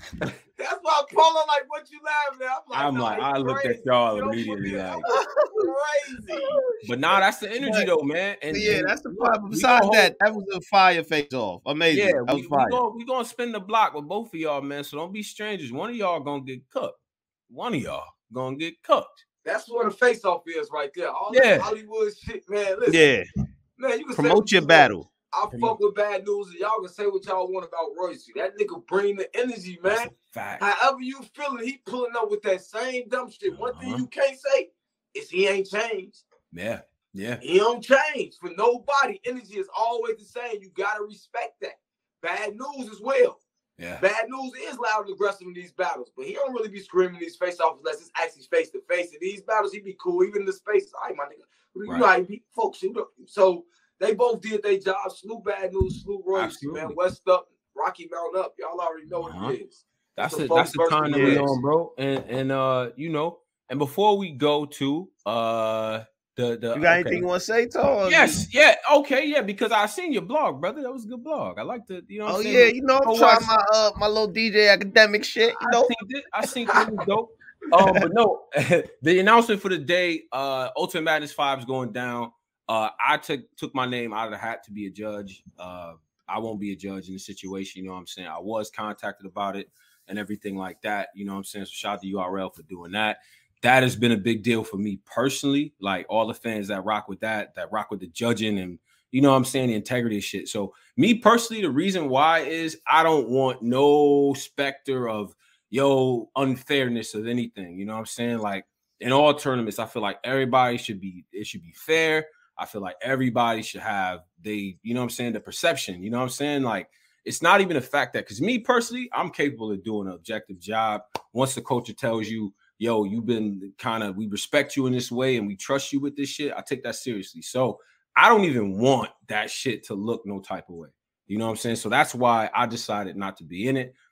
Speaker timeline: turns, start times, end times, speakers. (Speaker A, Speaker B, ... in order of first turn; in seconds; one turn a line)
Speaker A: 0.6-6.6
Speaker B: 2.7-5.0
Speaker C: 5.0-5.7
Speaker C: 6.3-6.6
Speaker B: 6.8-10.1
Speaker C: 7.6-7.9
Speaker C: 8.5-12.8
Speaker B: 11.9-19.2
Speaker A: 19.4-23.1
Speaker B: 21.3-21.7
Speaker C: 22.9-23.2
Speaker A: 23.8-36.2
Speaker C: 24.1-25.1
Speaker B: 25.5-25.8
Speaker B: 29.8-30.6
Speaker B: 33.5-34.0
Speaker B: 36.5-37.4
Speaker A: 37.4-43.4
Speaker B: 43.8-44.0
Speaker A: 44.0-61.5
Speaker B: 56.3-57.0
Speaker B: 59.2-59.6
Speaker B: 60.2-67.2
Speaker C: 61.1-61.5
Speaker C: 66.7-68.4
Speaker B: 68.0-73.5
Speaker C: 72.2-75.9
Speaker B: 75.6-133.9
Speaker C: 77.8-78.0